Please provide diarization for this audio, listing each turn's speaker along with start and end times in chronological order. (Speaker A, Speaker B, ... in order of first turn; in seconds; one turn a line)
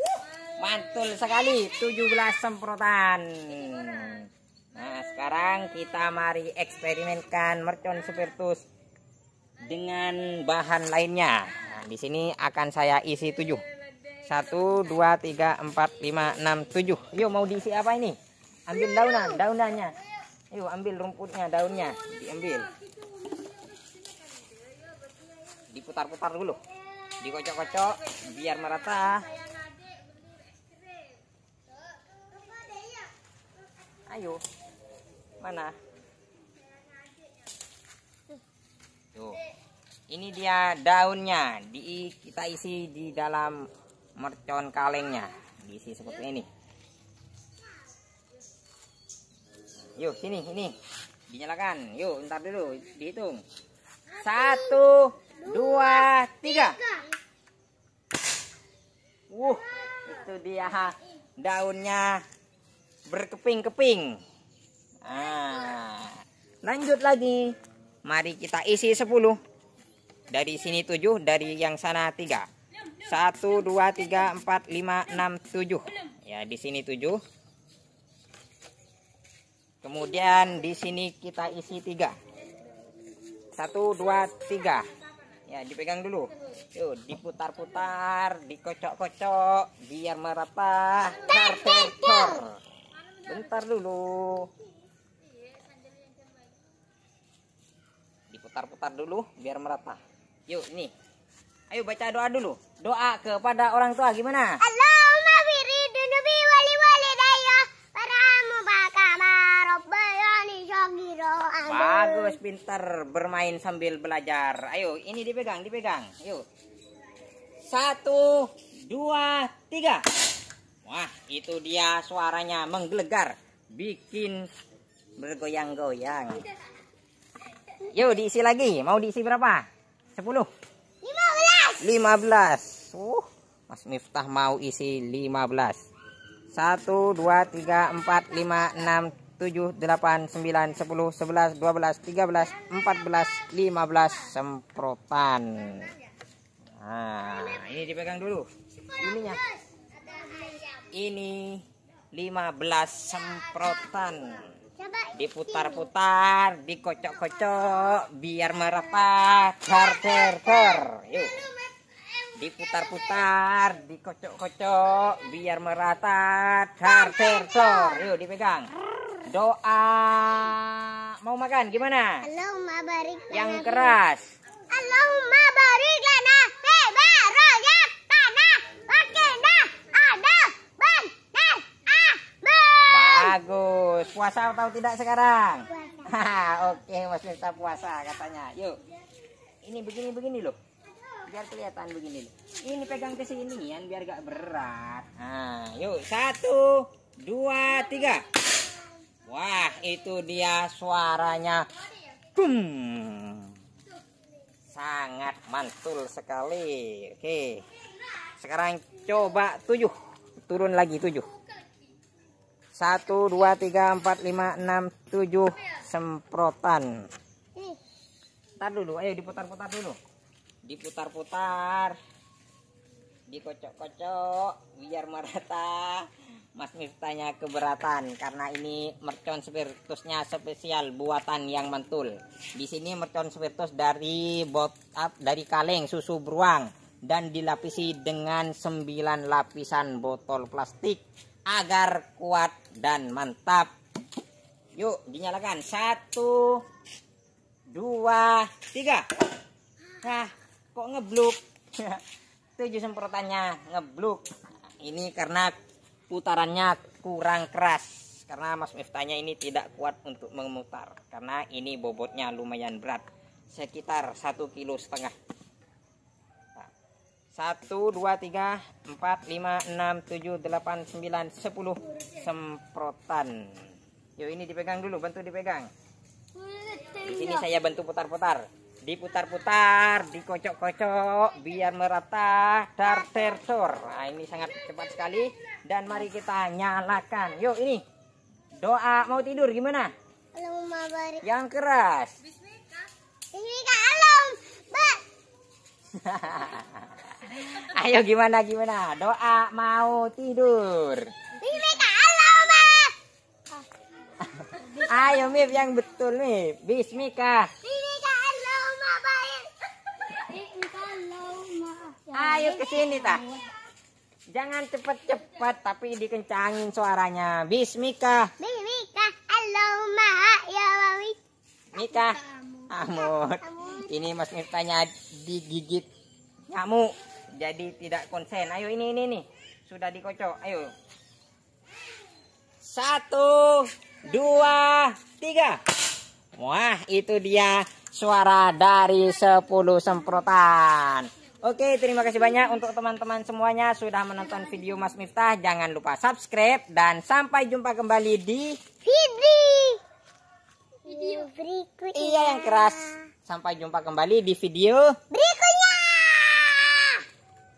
Speaker A: 0.5-8.6
Speaker A: 9.6-13.6
Speaker A: 14.2-18.2
Speaker A: 18.7-20.0
Speaker B: 18.7-19.4
Speaker A: 20.5-22.7
Speaker A: 25.7-26.6
Speaker A: 27.2-29.3
Speaker A: 34.1-34.4
Speaker A: 35.4-35.7
Speaker A: 40.1-43.6
Speaker A: 44.2-46.5
Speaker A: 50.0-50.7
Speaker A: 51.3-53.4
Speaker A: 54.2-56.8
Speaker B: 55.5-56.0
Speaker B: 56.8-57.0
Speaker A: 59.3-62.2
Speaker A: 63.1-64.2
Speaker A: 65.0-67.5
Speaker A: 68.1-69.4
Speaker A: 70.3-72.5
Speaker A: 73.0-77.2
Speaker A: 79.8-82.2
Speaker A: 83.6-84.9
Speaker A: 85.5-92.6
Speaker B: 91.2-92.5
Speaker A: 93.2-94.5
Speaker A: 98.3-100.9
Speaker A: 101.7-104.6
Speaker B: 104.6-112.4
Speaker A: 111.7-116.5
Speaker A: 117.7-120.0
Speaker A: 120.9-124.5
Speaker A: 125.2-126.5
Speaker A: 127.9-129.7
Speaker A: 130.2-130.5
Speaker B: 131.0-131.8
Speaker A: 131.8-135.8
Speaker A: 136.5-145.9
Speaker A: 146.8-149.4
Speaker B: 149.3-150.8
Speaker A: 150.9-154.5
Speaker B: 154.8-155.9
Speaker A: 155.2-161.4
Speaker B: 160.0-161.7
Speaker A: 162.4-168.7
Speaker B: 166.9-168.1
Speaker A: 169.3-172.2
Speaker B: 172.2-174.0
Speaker A: 173.3-174.3
Speaker B: 174.7-183.4
Speaker A: 182.9-188.8
Speaker B: 185.7-186.1
Speaker A: 189.6-190.6
Speaker A: 191.3-198.3
Speaker A: 199.2-203.6
Speaker A: 204.7-207.6
Speaker A: 208.4-209.9
Speaker A: 210.5-211.3
Speaker A: 212.8-216.9
Speaker A: 218.6-220.0
Speaker A: 220.7-222.0
Speaker A: 223.3-243.7
Speaker A: 244.8-246.6
Speaker A: 247.7-249.1
Speaker A: 250.0-252.0
Speaker A: 252.6-254.2
Speaker A: 254.8-255.6
Speaker A: 256.1-265.1
Speaker A: 267.4-273.3
Speaker A: 274.2-275.7
Speaker B: 276.4-277.0
Speaker A: 277.0-287.8
Speaker A: 288.6-289.9
Speaker B: 290.4-291.2
Speaker A: 291.2-292.2
Speaker B: 293.3-295.0
Speaker A: 295.9-301.1
Speaker B: 301.4-302.9
Speaker A: 304.2-307.5
Speaker B: 304.5-304.9
Speaker B: 307.6-309.5
Speaker B: 310.1-313.4
Speaker A: 312.1-313.2
Speaker A: 314.3-318.3
Speaker B: 318.4-321.2
Speaker A: 321.7-325.9
Speaker B: 322.2-323.9
Speaker A: 326.5-330.7
Speaker A: 332.6-335.6
Speaker A: 336.4-348.6
Speaker B: 348.8-349.8
Speaker B: 350.8-352.9
Speaker A: 351.9-354.9
Speaker B: 355.1-357.0